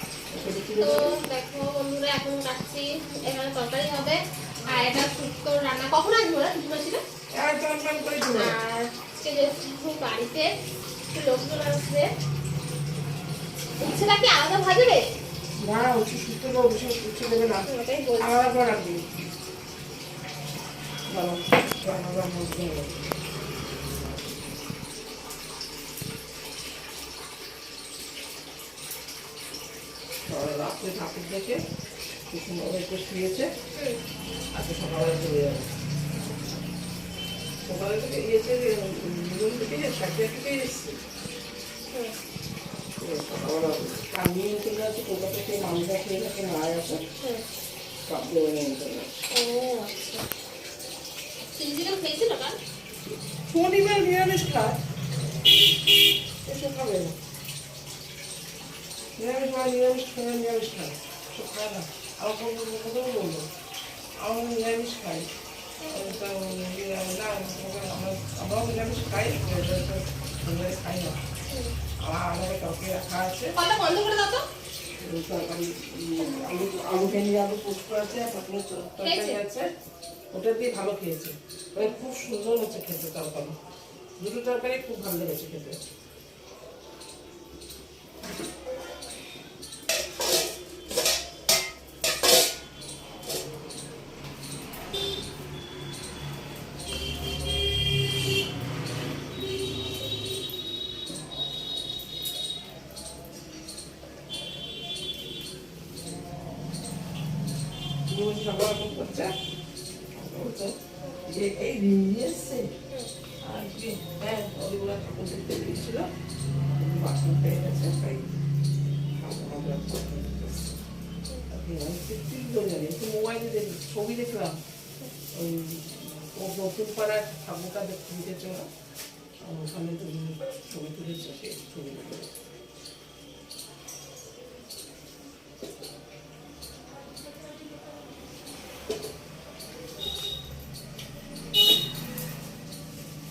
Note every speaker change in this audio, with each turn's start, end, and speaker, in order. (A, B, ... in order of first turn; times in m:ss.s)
0:00.3-0:01.1 A
0:00.8-0:07.0 B
0:07.3-0:08.5 A
0:08.3-0:10.5 B
0:11.1-0:12.1 B
0:13.8-0:15.0 B
0:15.6-0:17.6 A
0:17.6-0:18.3 B
0:18.2-0:19.0 A
0:21.1-0:23.1 A
0:30.2-0:31.6 A
0:32.3-0:33.5 A
0:33.7-0:34.0 B
0:34.5-0:35.7 A
0:37.6-0:41.0 A
0:43.0-0:47.0 A
0:48.1-0:49.1 A
0:49.3-0:50.2 B
0:51.5-0:52.6 B
0:53.5-0:54.8 A
0:56.4-0:57.1 A
0:59.2-1:03.4 A
1:04.2-1:05.3 A
1:05.8-1:06.2 B
1:05.9-1:11.2 A
1:11.5-1:11.7 B
1:12.0-1:13.5 A
1:13.5-1:14.4 B
1:15.0-1:19.7 A
1:19.0-1:19.4 B
1:20.3-1:23.6 A
1:24.2-1:25.8 A
1:48.1-1:49.3 A
1:50.1-1:52.7 A
1:53.4-1:56.1 A
1:56.7-1:58.4 A
1:59.1-2:00.7 A
2:01.5-2:04.6 A
2:05.3-2:08.7 A
2:09.4-2:12.3 A